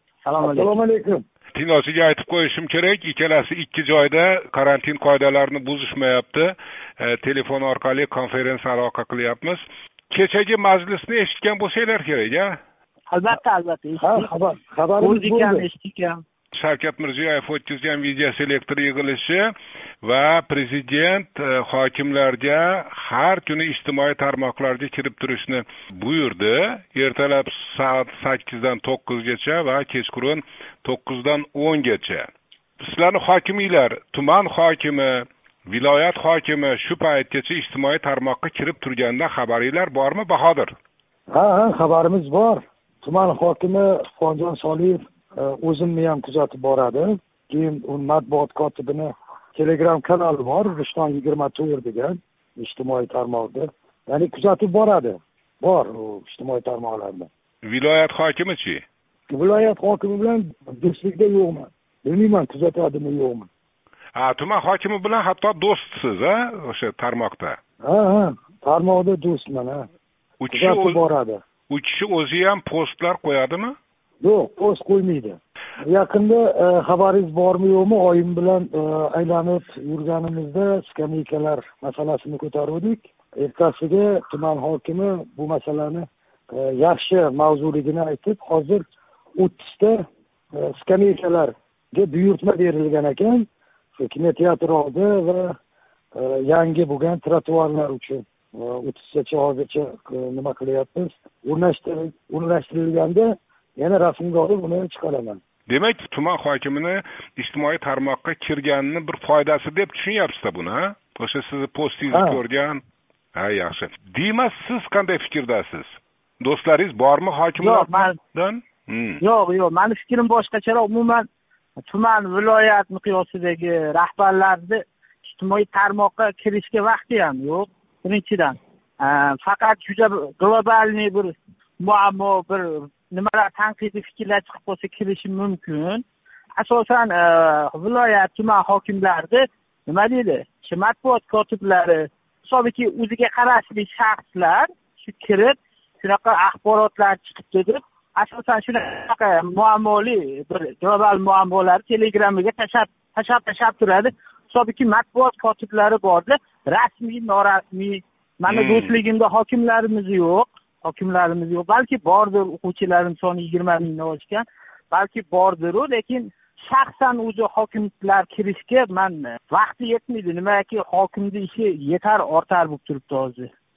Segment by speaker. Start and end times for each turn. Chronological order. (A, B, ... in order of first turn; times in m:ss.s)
0:00.2-0:00.8 A
0:00.4-0:01.2 B
0:01.5-0:12.6 C
0:13.1-0:14.3 A
0:14.0-0:15.6 B
0:15.0-0:16.2 A
0:16.5-0:32.3 C
0:32.8-0:40.7 C
0:41.3-0:57.3 B
0:57.6-0:58.8 C
0:59.3-1:03.5 B
1:04.1-1:07.6 C
1:07.8-1:09.8 B
1:10.4-1:11.0 C
1:10.5-1:11.4 B
1:11.7-1:13.7 C
1:14.2-1:28.8 B
1:29.4-1:30.0 B
1:30.5-1:35.6 B
1:36.1-1:45.4 B
1:45.7-1:52.8 C
1:52.1-1:52.4 B
1:53.3-1:59.2 C
1:57.6-1:58.2 A
1:59.2-2:01.3 A
2:01.8-2:16.0 A
2:16.6-2:53.5 A
2:38.5-2:39.0 C